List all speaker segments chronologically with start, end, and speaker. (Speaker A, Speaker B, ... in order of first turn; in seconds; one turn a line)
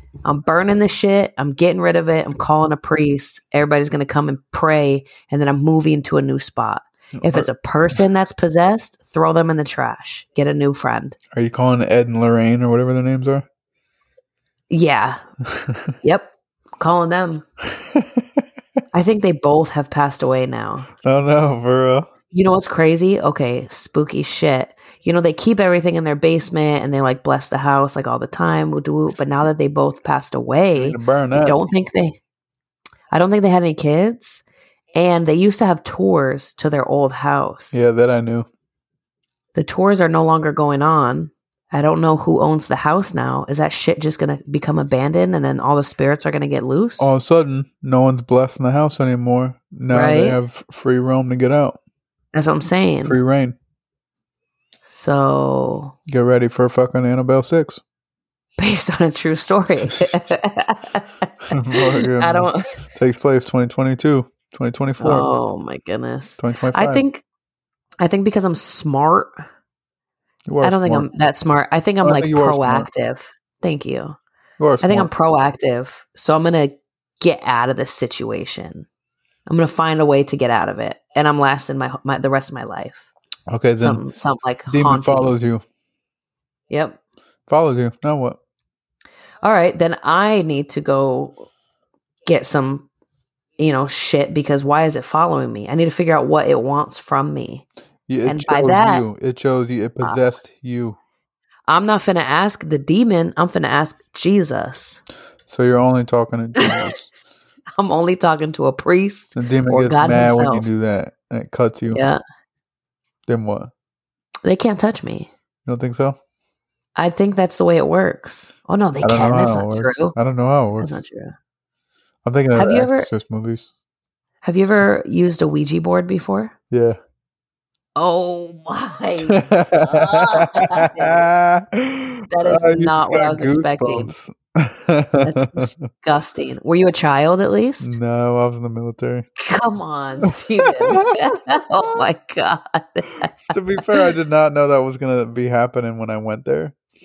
Speaker A: 0.2-11.2
Speaker B: 7.2-7.5
Speaker B: 11.3-13.5
Speaker A: 14.7-15.2
Speaker A: 16.0-17.4
Speaker B: 17.7-18.2
Speaker A: 18.9-20.9
Speaker B: 21.0-22.1
Speaker A: 22.3-32.2
Speaker B: 30.8-31.6
Speaker A: 33.1-34.4
Speaker A: 35.0-37.8
Speaker B: 37.7-38.5
Speaker A: 39.5-47.1
Speaker B: 47.0-51.8
Speaker A: 49.9-50.4
Speaker A: 52.3-53.2
Speaker B: 53.0-53.6
Speaker A: 54.9-55.9
Speaker B: 56.1-57.8
Speaker A: 58.6-61.1
Speaker B: 61.5-65.3
Speaker A: 61.8-62.7
Speaker A: 65.0-67.2
Speaker B: 66.4-67.0
Speaker A: 68.0-69.5
Speaker B: 70.5-71.1
Speaker A: 70.6-74.2
Speaker B: 72.0-72.9
Speaker B: 74.6-75.1
Speaker A: 74.8-78.9
Speaker A: 79.5-83.1
Speaker B: 83.5-84.0
Speaker A: 83.8-85.4
Speaker B: 84.7-85.6
Speaker A: 86.7-87.0
Speaker B: 87.5-88.4
Speaker A: 89.4-91.5
Speaker A: 92.2-92.9
Speaker A: 93.6-97.7
Speaker B: 98.1-101.0
Speaker A: 98.3-99.1
Speaker A: 101.7-105.0
Speaker B: 105.5-107.1
Speaker A: 106.6-106.8
Speaker A: 107.8-110.7
Speaker B: 109.4-112.0
Speaker A: 111.9-112.2
Speaker B: 113.3-113.7
Speaker A: 114.5-115.3
Speaker B: 115.7-116.2
Speaker A: 117.0-120.2
Speaker B: 119.0-121.0
Speaker A: 120.8-121.4
Speaker B: 122.2-123.7
Speaker A: 122.5-123.1
Speaker A: 124.4-126.5
Speaker B: 126.7-127.0
Speaker A: 128.0-131.3
Speaker B: 129.3-135.7
Speaker A: 132.3-134.1
Speaker A: 135.2-137.9
Speaker B: 137.8-139.3
Speaker A: 139.4-143.3
Speaker B: 143.5-146.8